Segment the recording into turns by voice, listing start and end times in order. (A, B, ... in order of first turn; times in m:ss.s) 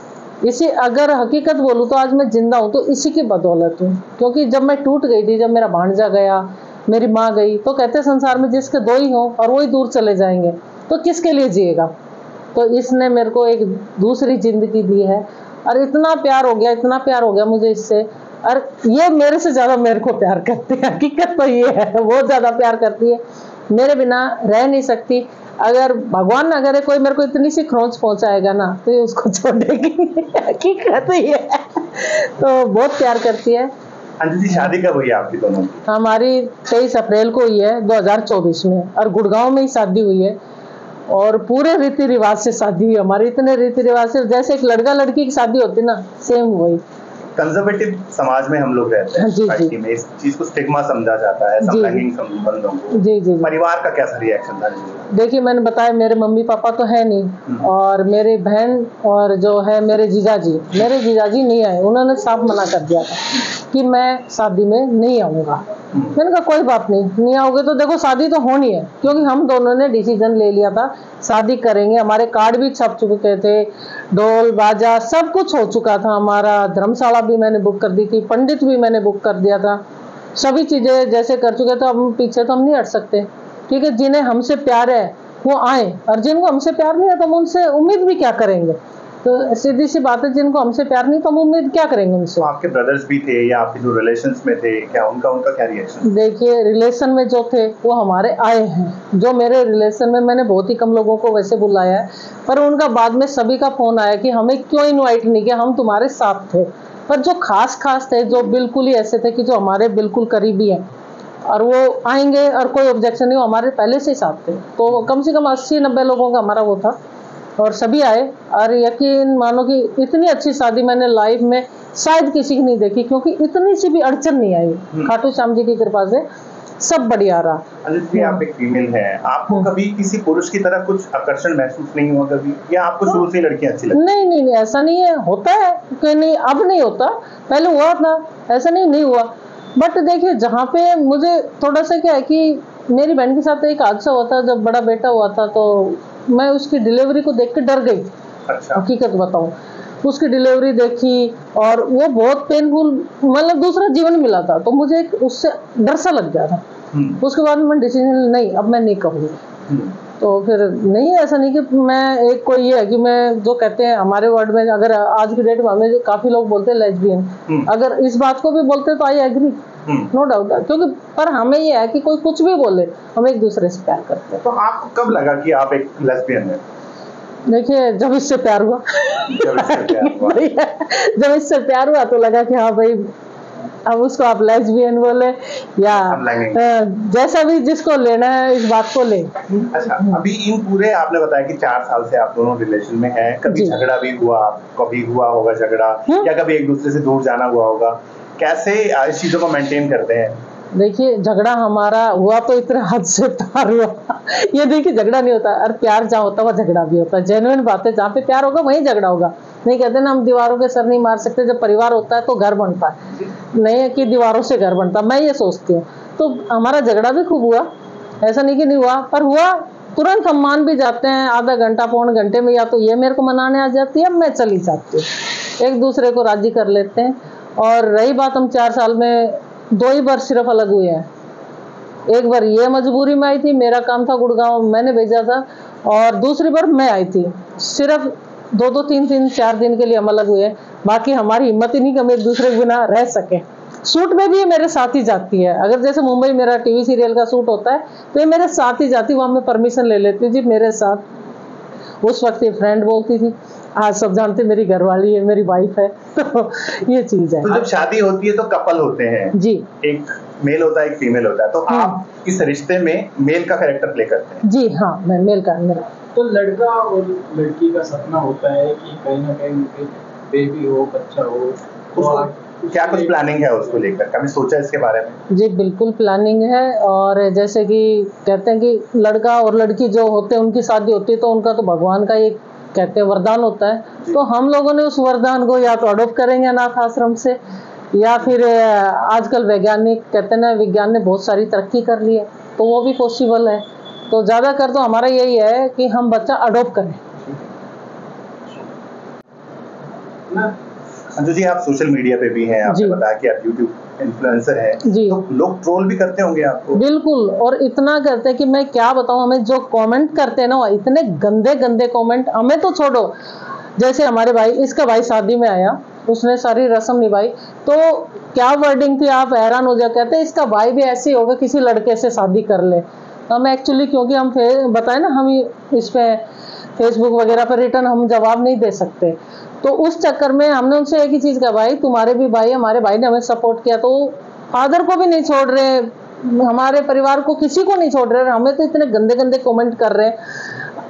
0:00.4-0:11.9 A
0:12.5-0:33.7 A
0:34.2-0:35.8 B
0:35.9-0:40.4 A
0:41.1-0:46.8 A
0:47.4-0:55.1 B
0:49.2-0:49.8 A
0:51.6-0:52.0 A
0:52.9-0:53.5 A
0:55.1-1:19.8 A
1:20.4-1:32.5 A
1:32.4-1:36.1 B
1:36.0-1:50.9 A
1:51.5-1:57.0 A
1:57.6-2:06.2 A
2:06.8-2:08.4 A
2:07.8-2:14.0 B
2:13.9-2:28.1 A
2:28.5-2:28.8 B
2:28.8-2:36.6 A
2:36.9-2:37.2 B
2:37.2-2:39.4 A
2:39.7-2:40.0 B
2:40.2-2:54.4 A
2:49.9-2:50.1 B
2:54.4-2:56.6 B
2:57.5-3:03.1 A
2:59.3-3:00.4 B
3:03.9-3:10.2 A
3:05.9-3:06.6 B
3:09.7-3:20.4 B
3:13.5-3:13.8 A
3:20.7-3:37.7 A
3:38.2-3:45.1 A
3:45.6-3:51.1 A
3:52.1-4:11.0 A
4:12.0-4:17.6 A
4:17.4-4:24.4 B
4:19.3-4:19.7 A
4:21.7-4:22.0 A
4:24.4-4:25.9 A
4:26.2-4:33.4 C
4:32.0-4:35.2 B
4:35.3-4:47.4 A
4:47.9-4:57.0 A
5:01.2-5:06.8 B
5:02.7-5:03.0 A
5:04.8-5:05.2 A
5:06.8-5:13.2 A
5:13.8-5:26.2 A
5:26.8-5:40.2 A